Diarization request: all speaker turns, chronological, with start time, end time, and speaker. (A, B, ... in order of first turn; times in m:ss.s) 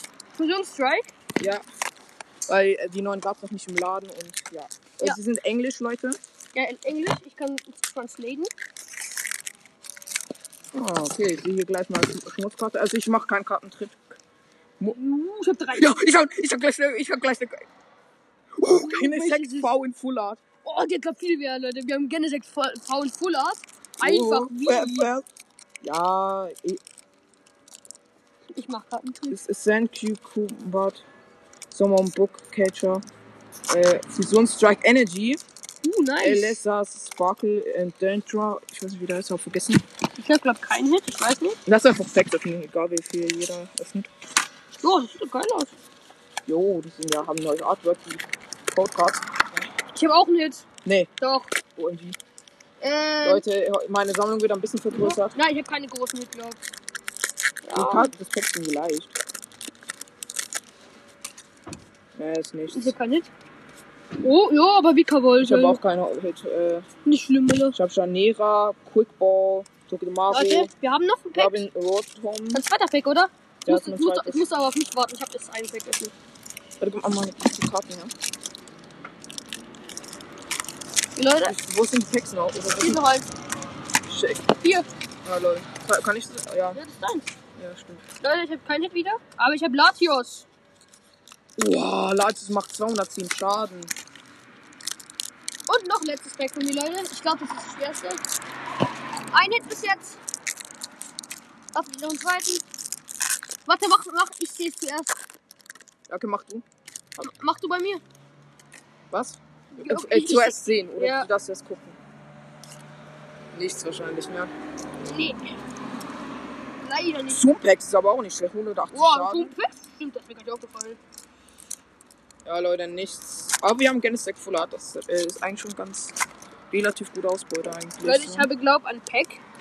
0:00.4-0:01.1 A
0:01.4-0:01.6 B
0:02.5-0:06.2 B
0:06.5-0:08.5 A
0:10.7-0:14.2 B
0:14.9-0:16.0 A
0:15.7-0:17.6 B
0:18.6-0:20.4 B
0:18.7-0:19.7 A
0:20.6-0:25.1 A
0:24.0-0:25.2 B
0:25.8-0:26.8 B
0:28.5-0:29.4 A
0:29.3-0:31.0 B
0:31.7-0:33.0 B
0:33.7-0:35.4 B
0:35.8-0:36.6 A
0:36.2-0:39.8 B
0:40.2-0:41.6 A
0:41.7-0:44.1 B
0:44.8-0:45.8 A
0:46.5-0:49.6 B
0:49.9-0:50.6 A
0:50.8-0:51.1 B
0:51.2-0:51.6 A
0:51.8-0:52.2 B
0:52.8-0:53.4 A
0:53.2-0:55.4 B
0:54.9-0:56.6 A
0:57.6-0:58.1 A
0:57.7-0:59.2 B
1:02.2-1:03.0 B
1:02.7-1:03.3 A
1:04.2-1:05.8 A
1:05.4-1:06.9 B
1:07.0-1:07.8 A
1:07.7-1:10.7 B
1:10.3-1:11.6 A
1:11.3-1:12.6 B
1:12.5-1:16.1 A
1:13.6-1:14.4 B
1:16.8-1:18.1 B
1:21.2-1:21.6 A
1:21.4-1:23.0 B
1:22.8-1:23.3 A
1:24.1-1:24.4 B
1:24.6-1:24.9 A
1:25.2-1:26.8 B
1:26.7-1:27.3 A
1:27.6-1:28.0 B
1:28.2-1:30.5 A
1:31.6-1:33.9 B
1:35.7-1:38.2 A
1:39.3-1:40.2 A
1:41.7-1:42.6 A
1:43.6-1:45.2 A
1:46.1-1:46.6 B
1:47.2-1:48.0 A
1:49.1-1:52.0 B
1:49.7-1:51.3 A
1:53.5-1:54.5 B
1:55.0-1:55.5 A
1:56.8-1:57.4 A
1:57.3-1:59.5 B
1:58.9-2:01.0 A
2:02.4-2:06.2 B
2:06.7-2:08.5 B
2:08.0-2:09.4 A